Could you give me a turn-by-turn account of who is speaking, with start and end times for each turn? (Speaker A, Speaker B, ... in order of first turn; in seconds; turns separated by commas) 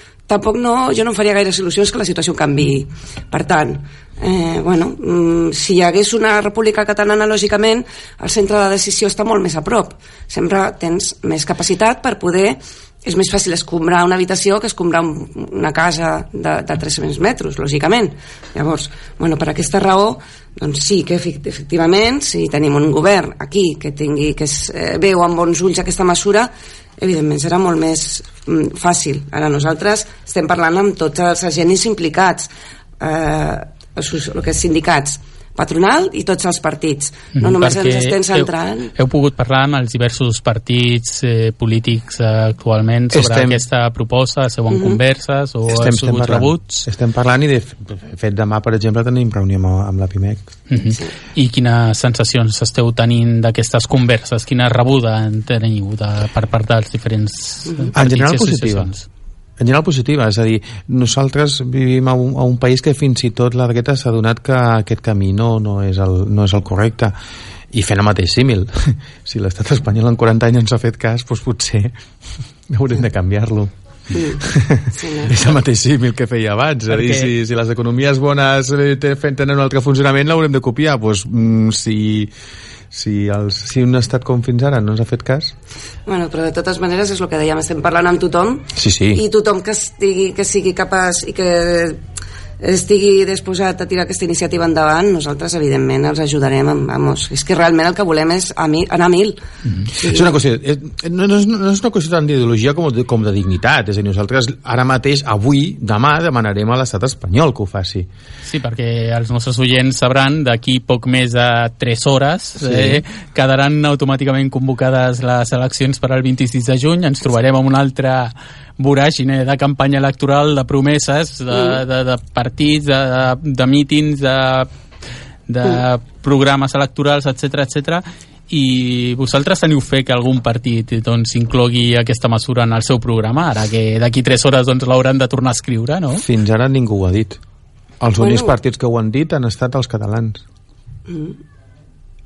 Speaker A: 0.3-38.9, Speaker B: 37.3-46.9, Speaker C: 43.1-43.6, Speaker A: 44.7-45.0, Speaker C: 45.7-50.5, Speaker B: 50.7-59.0, Speaker C: 57.9-58.9, Speaker C: 59.6-67.1, Speaker C: 67.7-71.9, Speaker C: 72.7-73.7, Speaker A: 74.1-75.5, Speaker C: 74.3-82.3, Speaker B: 77.0-77.2, Speaker C: 82.9-85.5, Speaker A: 86.0-92.0, Speaker C: 88.7-89.2, Speaker A: 92.6-99.4, Speaker A: 99.9-100.3, Speaker C: 100.0-108.1, Speaker B: 108.4-124.7, Speaker C: 112.6-113.0, Speaker A: 121.5-121.8, Speaker B: 125.5-136.2, Speaker C: 136.2-137.4, Speaker C: 138.0-140.4, Speaker A: 138.2-138.5, Speaker A: 141.1-141.4